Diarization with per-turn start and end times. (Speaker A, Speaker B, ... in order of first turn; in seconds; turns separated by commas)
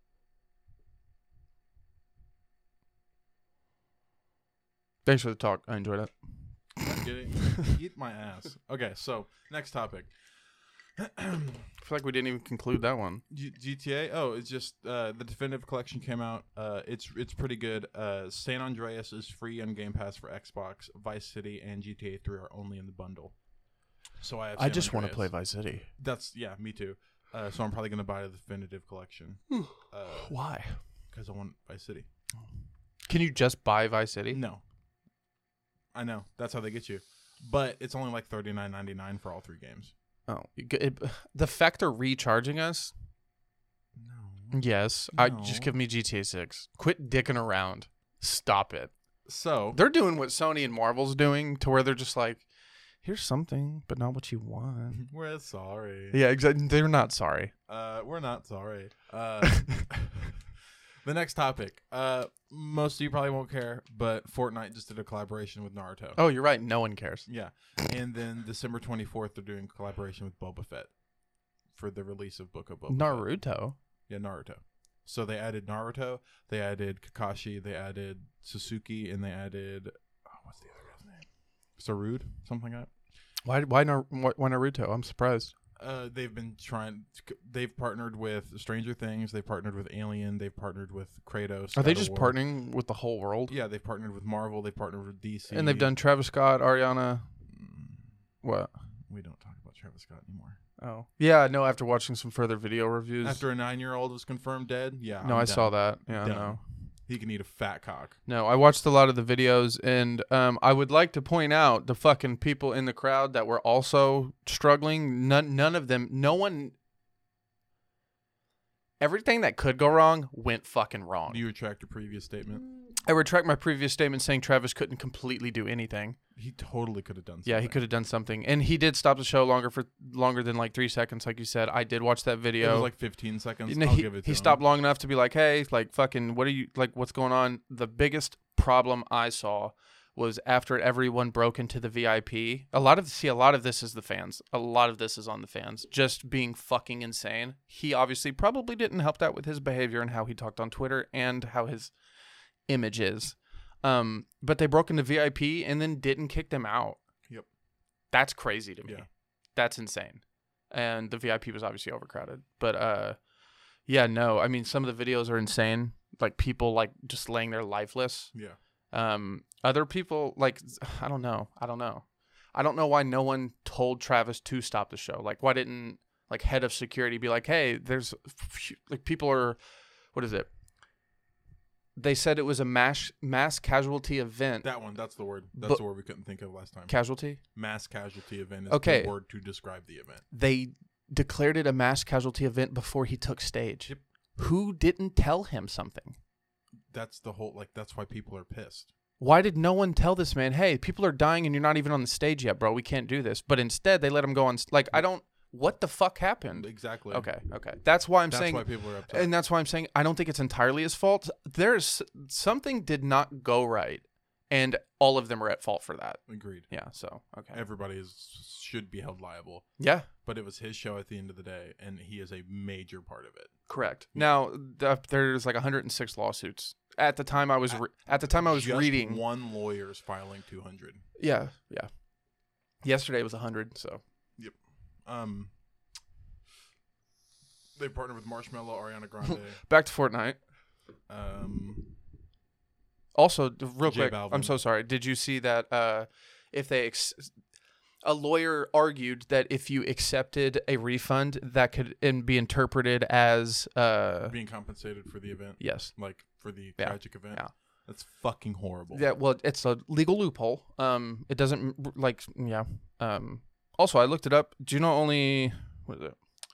Speaker A: 5.0-6.7, Speaker B: 6.8-11.7, Speaker A: 11.8-13.2, Speaker B: 13.3-23.4, Speaker B: 24.2-30.4, Speaker A: 24.6-25.9, Speaker A: 29.5-30.8, Speaker B: 31.1-32.1, Speaker A: 33.1-34.4, Speaker B: 34.3-34.6, Speaker B: 35.9-39.9, Speaker A: 40.3-42.9, Speaker B: 44.0-44.6, Speaker A: 44.5-48.9, Speaker B: 45.1-45.7, Speaker B: 49.3-49.8, Speaker A: 49.7-52.5, Speaker A: 53.0-55.0, Speaker B: 55.0-56.2, Speaker A: 56.1-57.5, Speaker B: 57.7-66.2, Speaker A: 59.5-59.8, Speaker A: 66.2-67.3, Speaker B: 67.3-71.0, Speaker B: 71.7-73.5, Speaker A: 72.9-73.8, Speaker B: 74.1-82.9, Speaker A: 83.5-85.5, Speaker B: 85.8-92.4, Speaker A: 91.8-93.5, Speaker B: 93.5-95.9, Speaker A: 95.5-97.3, Speaker B: 97.5-98.2, Speaker A: 98.4-98.7, Speaker B: 99.1-100.6, Speaker A: 100.8-103.4, Speaker B: 103.2-108.2, Speaker A: 105.2-106.6, Speaker A: 108.3-116.8, Speaker A: 119.0-121.4, Speaker B: 121.3-122.7, Speaker A: 123.0-126.2, Speaker B: 126.4-127.8, Speaker A: 127.5-133.0, Speaker B: 132.6-134.6, Speaker A: 133.7-151.9, Speaker A: 152.7-157.0, Speaker A: 158.1-163.2, Speaker A: 163.8-168.3, Speaker A: 168.9-179.6, Speaker A: 180.1-180.5, Speaker A: 182.0-184.7, Speaker B: 184.6-190.3, Speaker A: 185.6-185.8, Speaker A: 186.9-187.4, Speaker A: 188.7-189.1, Speaker A: 190.3-196.2, Speaker B: 196.9-198.9, Speaker A: 199.2-217.6, Speaker B: 206.5-207.3, Speaker B: 208.3-209.3, Speaker B: 216.3-216.7, Speaker B: 217.5-219.7, Speaker A: 219.8-220.1, Speaker B: 220.2-224.4, Speaker A: 223.7-229.2, Speaker B: 227.7-231.0, Speaker A: 231.2-231.9, Speaker A: 232.8-234.0, Speaker B: 234.4-235.6, Speaker B: 237.8-239.6, Speaker A: 239.6-240.4, Speaker B: 241.1-242.0, Speaker A: 243.1-247.4, Speaker B: 243.8-244.6, Speaker A: 248.0-254.4, Speaker B: 254.3-259.1, Speaker A: 255.6-257.5, Speaker A: 258.9-266.2